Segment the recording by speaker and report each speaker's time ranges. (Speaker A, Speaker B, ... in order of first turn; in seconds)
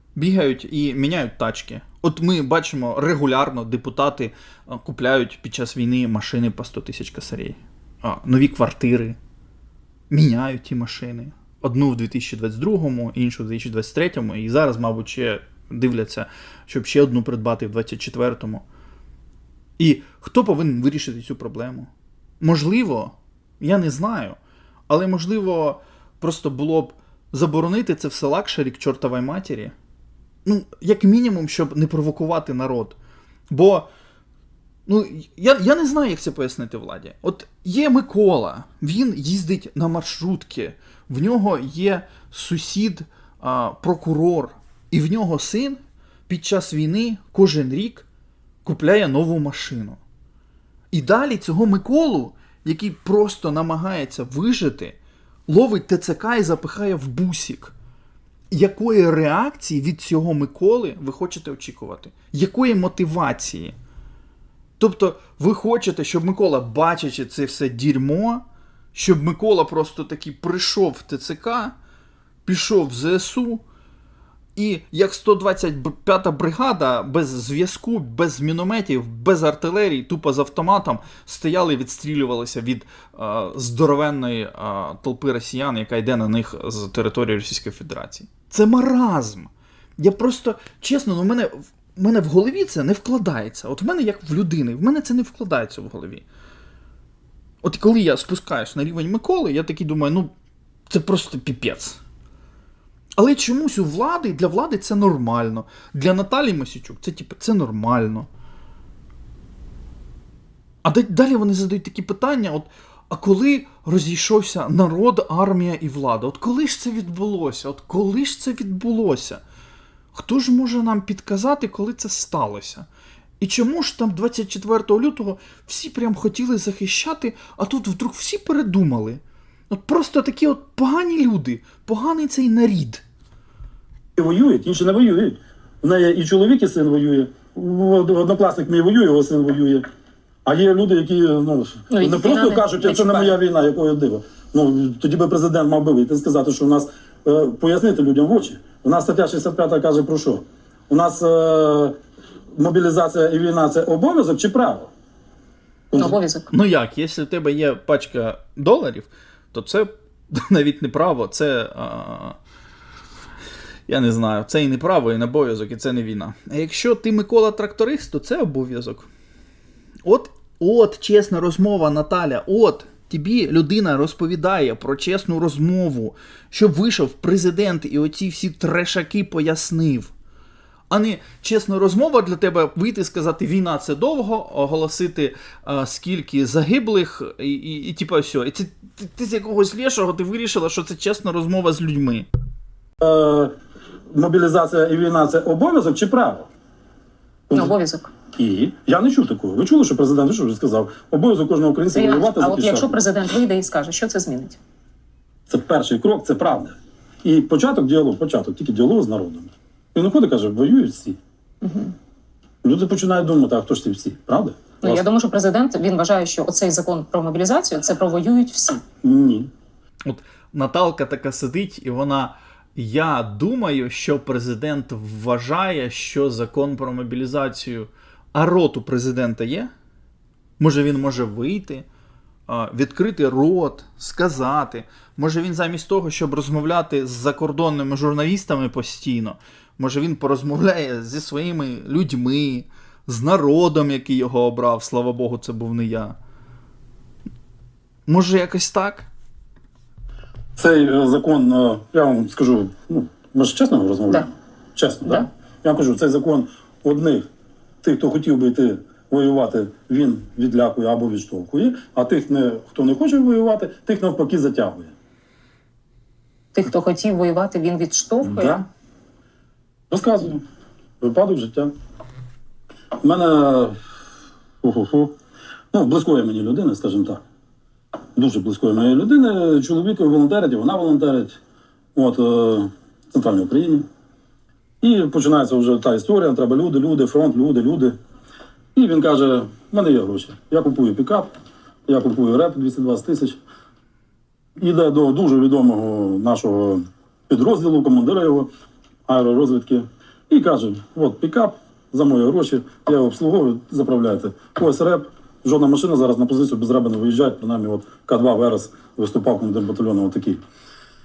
Speaker A: 0.2-9.2, 10.1-18.6, 19.8-21.9, 22.4-29.7, 30.4-33.0, 33.5-33.9, 34.9-48.1, 48.6-50.0, 50.9-55.0, 55.5-57.7, 58.5-63.8, 64.8-71.8, 72.5-73.6, 74.6-96.2, 97.6-100.3, 100.9-102.0, 103.2-108.3, 110.8-119.4, 120.1-122.9, 123.4-133.0, 156.5-162.4, 163.9-169.1, 170.1-180.1, 180.9-192.3, 220.1-229.7, 230.6-231.9, 232.5-246.2, 248.1-249.1
Speaker B: 134.2-139.8, 140.4-152.0, 152.6-154.9, 155.9-156.2, 193.0-193.5, 194.1-196.5, 197.5-197.8, 198.3-203.0, 205.5-211.2, 212.6-215.0, 219.0-219.5, 250.6-257.3, 257.8-264.9, 268.2-268.6, 269.9-270.4, 271.0-271.7, 273.0-273.8, 274.6-275.1, 275.7-277.2, 278.2-281.4, 281.9-283.9, 284.8-287.9, 288.8-291.3, 291.9-293.4, 294.6-298.5, 299.1-310.4
Speaker C: 141.9-143.3, 156.0-156.5, 197.5-198.1, 201.9-204.6, 211.6-211.9, 214.8-218.8, 266.6-268.6